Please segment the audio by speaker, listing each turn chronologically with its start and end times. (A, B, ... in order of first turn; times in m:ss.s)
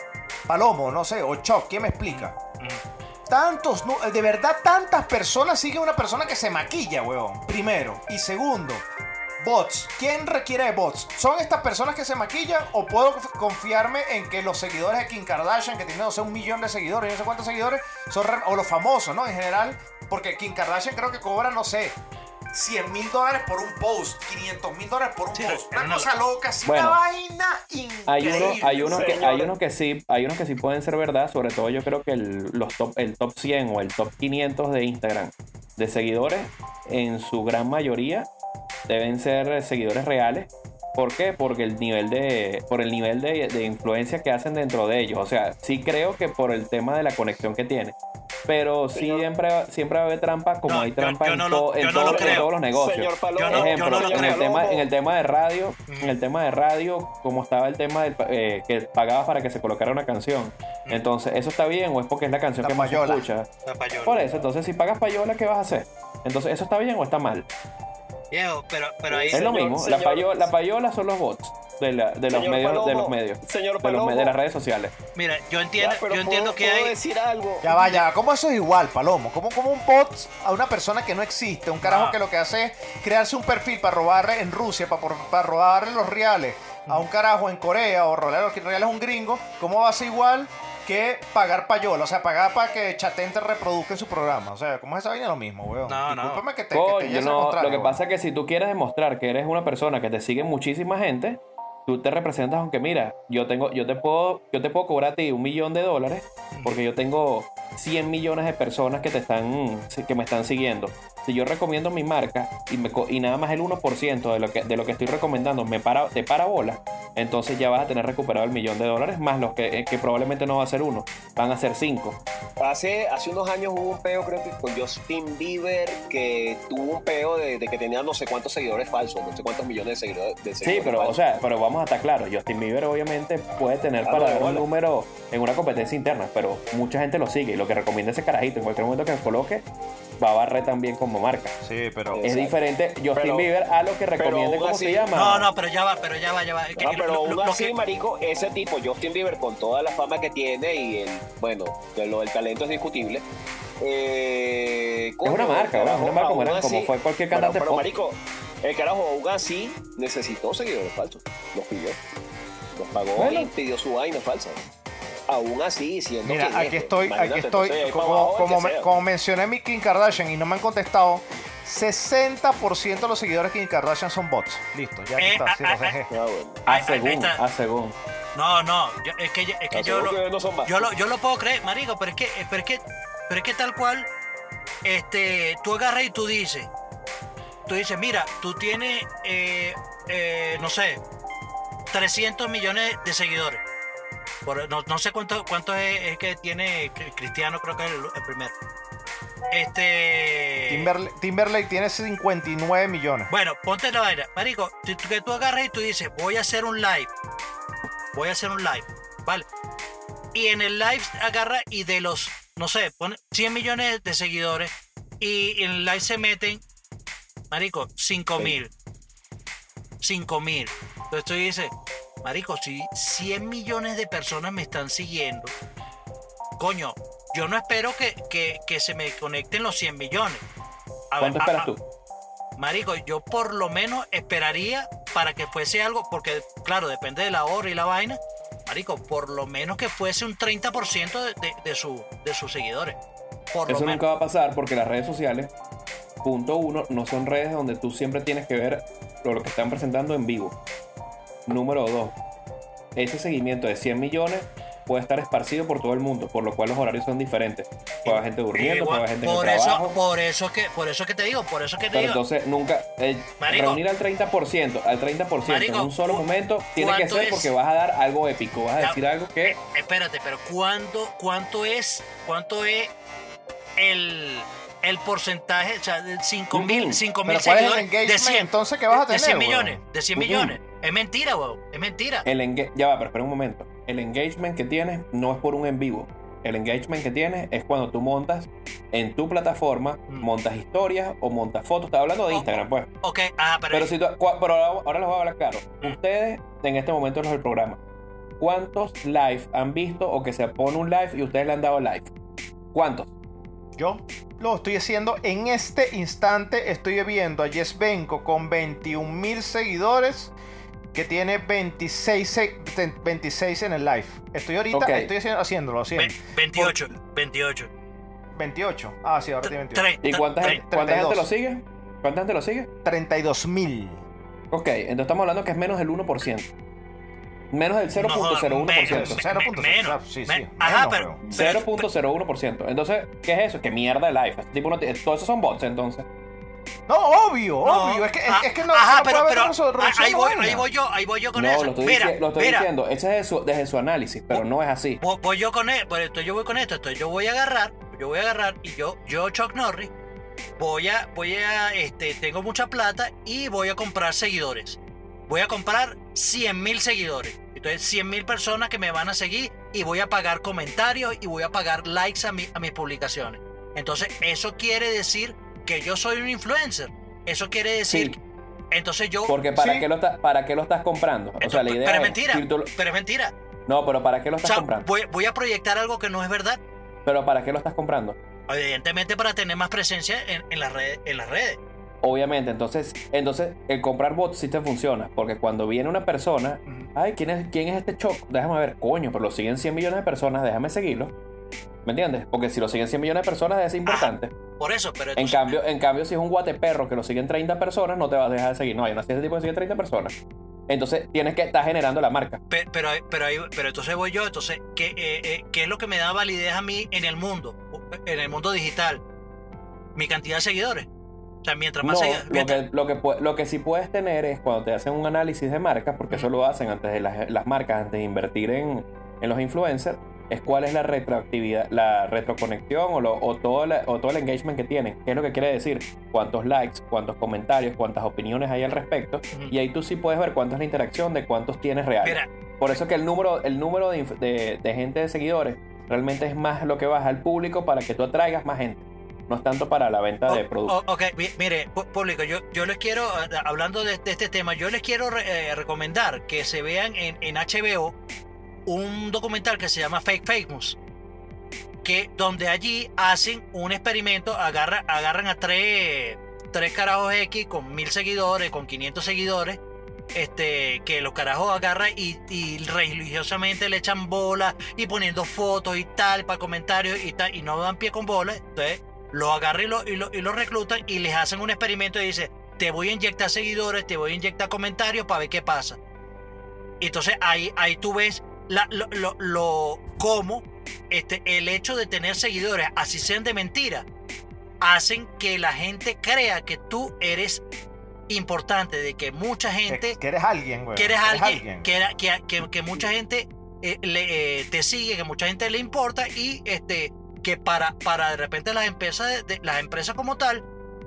0:00.5-0:02.3 A
0:02.1-0:02.8 B
0:03.3-0:08.9 A
0:09.4-0:22.0 A
0:22.5-0:29.3 A
0:25.3-0:26.1 B
0:26.6-0:27.0 C
0:28.1-0:38.3 C
0:28.2-0:29.5 D
0:38.9-0:48.0 C
0:48.5-1:03.5 C
0:48.9-0:49.2 D
0:50.7-0:52.5 B
0:52.0-0:54.9 D
0:53.4-0:54.4 B
0:55.9-0:56.2 B
1:02.6-1:03.3 A
1:03.7-1:04.3 B
1:04.1-1:07.5 C
1:08.3-1:09.5 B
1:09.1-1:10.5 D
1:09.3-1:14.9 C
1:12.3-1:14.4 D
1:15.2-1:17.0 B
1:15.8-1:17.7 D
1:17.6-1:38.0 A
1:17.7-1:18.0 B
1:21.8-1:22.2 B
1:35.9-1:36.4 B
1:36.7-2:02.2 C
2:02.6-2:11.2 D
2:10.6-2:19.6 C
2:14.0-2:14.6 D
2:20.2-2:21.5 C
2:21.6-2:22.2 A
2:22.1-2:22.6 D
2:22.2-2:25.5 C
2:23.1-2:23.5 D
2:24.2-2:25.1 D
2:25.2-2:27.7 B
2:26.8-2:33.2 D
2:33.8-2:42.0 D
2:35.2-2:37.8 C
2:42.7-2:44.6 D
2:43.2-2:43.5 C
2:45.3-2:48.9 D
2:46.2-2:56.1 A
2:55.2-2:56.0 B
2:56.1-2:56.6 D
2:56.7-2:58.0 C
2:56.7-2:57.4 B
2:58.4-3:04.1 B
2:59.7-3:00.9 D
3:04.8-3:06.7 B
3:07.7-3:11.0 B
3:11.9-3:13.6 B
3:14.4-3:18.5 B
3:19.5-3:20.9 B
3:20.7-3:23.3 A
3:23.3-3:27.1 B
3:28.1-3:29.5 B
3:30.3-3:36.6 B
3:37.5-3:38.7 B
3:40.0-3:41.7 B
3:42.2-3:45.5 B
3:46.6-3:50.4 B
3:51.1-3:51.7 B
3:51.2-3:51.8 C
3:52.6-4:03.0 B
4:03.5-4:04.0 B
4:03.7-4:05.5 C
4:06.2-4:10.5 C
4:11.5-4:12.1 C
4:13.0-4:20.0 C
4:18.0-4:22.2 B
4:21.9-4:29.6 C
4:23.4-4:23.8 B
4:25.5-4:26.2 B
4:26.8-4:27.5 B
4:28.8-4:32.9 B
4:33.8-4:42.3 B
4:36.5-4:37.0 C
4:37.2-4:40.6 A
4:42.2-4:52.9 C
4:52.3-4:53.9 B
4:53.7-4:57.8 C
4:58.4-5:02.1 C
5:02.7-5:03.1 C
5:03.8-5:10.3 A
5:10.9-5:16.8 A
5:14.7-5:15.1 C
5:15.9-5:17.7 B
5:18.4-5:21.3 A
5:19.4-5:20.6 B
5:20.0-5:22.7 C
5:22.8-5:24.0 A
5:24.5-5:26.5 C
5:27.5-5:29.2 C
5:28.0-5:31.9 B
5:28.8-5:31.2 A
5:31.3-5:36.1 C
5:36.9-5:40.6 A
5:37.6-5:42.7 B
5:41.4-5:45.0 C
5:45.0-5:49.9 B
5:50.6-6:08.2 B
6:07.9-6:08.2 C
6:08.7-6:09.4 B
6:09.3-6:12.7 C
6:09.6-6:09.9 A
6:11.4-6:13.3 B
6:13.7-6:14.9 C
6:14.4-6:16.6 B
6:17.0-6:18.2 C
6:18.5-6:21.6 B
6:22.0-6:31.1 C
6:31.8-6:34.3 C
6:33.9-6:35.6 B
6:35.2-6:40.1 C
6:40.7-6:42.4 C
6:42.5-6:49.0 B
6:50.0-6:50.9 B
6:51.4-6:52.6 B
6:51.8-7:20.8 C
7:12.0-7:12.8 B
7:20.3-7:28.0 B
7:28.7-7:30.8 B
7:31.8-7:39.6 B
7:40.1-7:55.8 B
7:56.8-8:03.9 B
8:04.6-8:07.4 B
8:08.1-8:10.0 B
8:09.7-8:11.7 A
8:10.8-8:20.4 B